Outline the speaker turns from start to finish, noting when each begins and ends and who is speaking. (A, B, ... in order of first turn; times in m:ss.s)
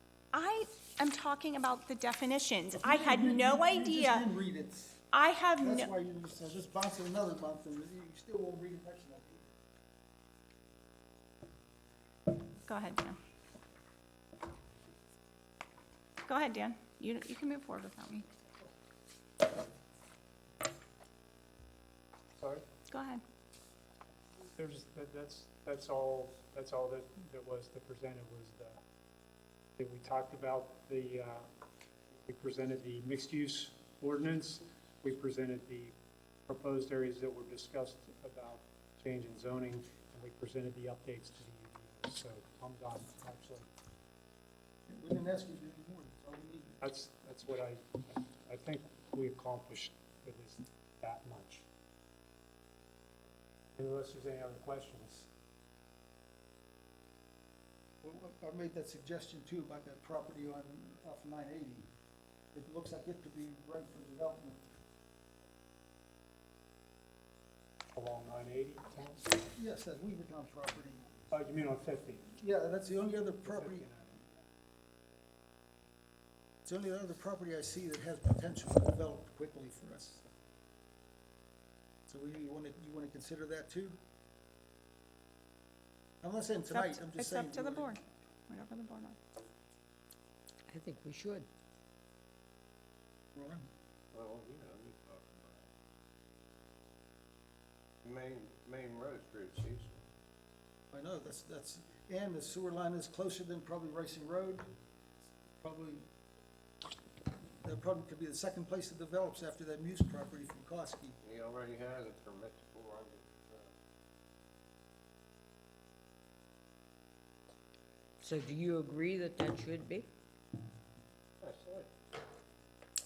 0:00.3-0:04.3 A
0:02.7-0:05.0 B
0:05.1-0:05.9 A
0:05.6-0:09.6 B
0:12.6-0:13.2 A
0:16.2-0:18.3 A
0:22.9-0:23.2 A
0:24.6-0:28.8 C
0:29.8-0:31.5 C
0:32.2-0:35.9 C
0:36.5-0:43.7 C
0:44.9-0:46.8 B
0:46.8-0:51.6 C
0:53.8-0:55.3 C
0:58.0-1:01.9 B
1:02.5-1:04.6 B
1:08.0-1:09.4 C
1:09.5-1:11.2 B
1:11.3-1:12.3 C
1:12.3-1:13.9 B
1:13.5-1:14.3 C
1:16.6-1:20.2 B
1:22.1-1:24.0 B
1:26.2-1:28.0 B
1:26.7-1:29.2 A
1:30.7-1:31.5 D
1:33.4-1:33.7 B
1:34.1-1:35.7 E
1:38.0-1:40.0 E
1:40.9-1:44.7 B
1:45.4-1:46.1 B
1:47.6-1:51.2 B
1:51.2-1:53.7 E
1:58.2-2:00.1 D
2:01.4-2:01.9 E